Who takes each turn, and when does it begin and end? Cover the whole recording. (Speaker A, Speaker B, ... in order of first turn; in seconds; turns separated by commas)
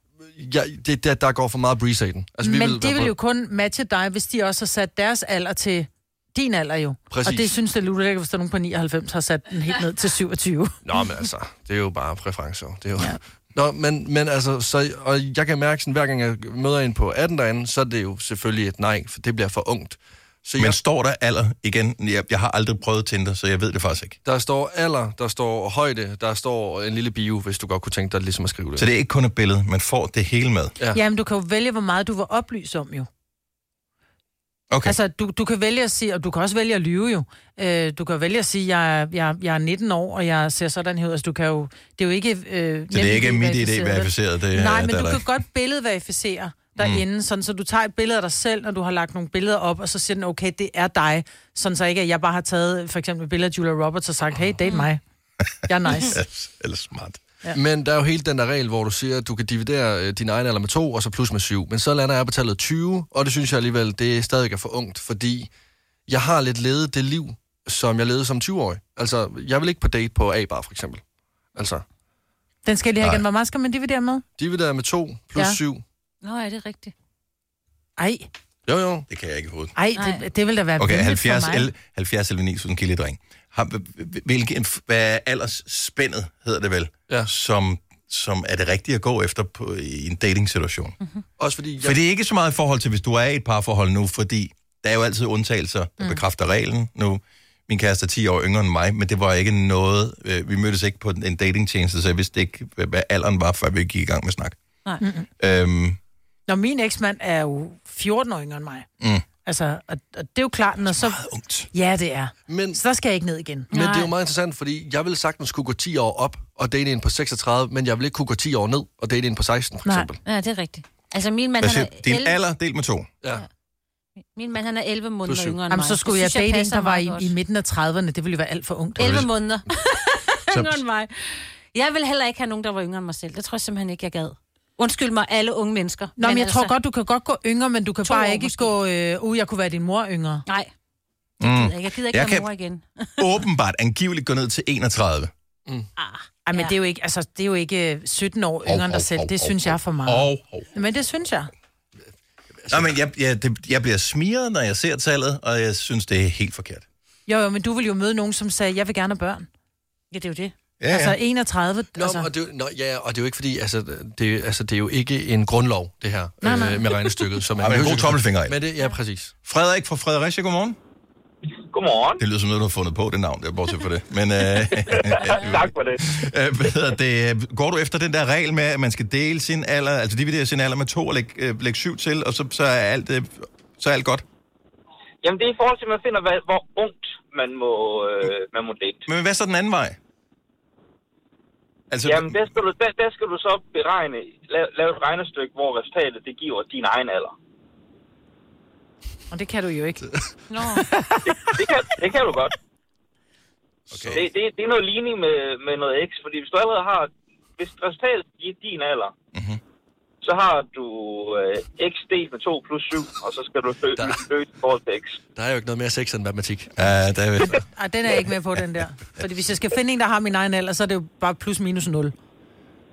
Speaker A: 0.2-3.1, Speaker B: 2.4-10.8, Speaker A: 7.1-7.5, Speaker A: 10.8-20.8, Speaker C: 20.6-24.2, Speaker A: 24.2-28.9, Speaker C: 28.8-30.7, Speaker B: 30.9-33.1, Speaker C: 34.7-35.0, Speaker B: 34.9-55.0, Speaker C: 42.9-45.2, Speaker C: 46.8-47.0, Speaker B: 55.7-56.2, Speaker C: 55.9-57.2, Speaker A: 57.5-65.5, Speaker A: 66.1-71.0, Speaker A: 71.5-71.8, Speaker B: 72.7-74.2, Speaker A: 74.4-75.8, Speaker D: 76.2-76.9, Speaker B: 78.0-78.3, Speaker A: 78.7-79.1, Speaker C: 79.1-79.7, Speaker B: 79.8-81.7, Speaker D: 80.0-80.2, Speaker C: 80.8-91.0, Speaker A: 91.4-92.0, Speaker C: 91.8-104.6, Speaker B: 105.0-105.3, Speaker C: 105.4-106.0, Speaker B: 106.5-108.9, Speaker C: 109.0-109.3, Speaker B: 109.5-111.2, Speaker C: 110.8-111.7, Speaker B: 111.7-113.7, Speaker A: 112.5-112.8, Speaker D: 113.7-114.1, Speaker A: 113.7-120.2, Speaker D: 120.2-122.4, Speaker C: 121.6-123.1, Speaker D: 124.3-127.3, Speaker A: 125.3-125.6, Speaker B: 125.7-129.2, Speaker D: 129.0-136.7, Speaker C: 129.0-129.3, Speaker C: 130.5-130.8, Speaker B: 136.2-140.4, Speaker D: 138.1-138.8, Speaker C: 141.4-142.5, Speaker D: 141.4-143.3, Speaker C: 143.2-145.3, Speaker D: 146.0-146.8, Speaker B: 146.5-151.5, Speaker C: 148.7-150.7, Speaker A: 152.6-152.9, Speaker C: 152.7-156.8, Speaker B: 157.3-159.5, Speaker D: 160.1-160.5, Speaker C: 160.8-161.2, Speaker B: 160.9-162.3, Speaker A: 162.0-169.3, Speaker B: 166.4-166.9, Speaker C: 167.6-168.6, Speaker C: 169.4-170.8, Speaker E: 171.7-172.2, Speaker C: 172.2-184.2, Speaker E: 174.9-176.1, Speaker E: 185.2-189.1, Speaker C: 189.1-190.0, Speaker C: 191.9-192.5, Speaker E: 192.0-197.3, Speaker B: 199.3-200.1, Speaker D: 200.5-200.8, Speaker B: 200.9-201.3, Speaker E: 201.5-202.5, Speaker C: 203.9-204.3, Speaker A: 203.9-204.2, Speaker E: 204.1-209.1, Speaker C: 209.3-209.6, Speaker E: 210.2-215.2, Speaker A: 214.0-214.2, Speaker A: 215.3-216.7, Speaker C: 216.8-217.6, Speaker B: 217.7-222.1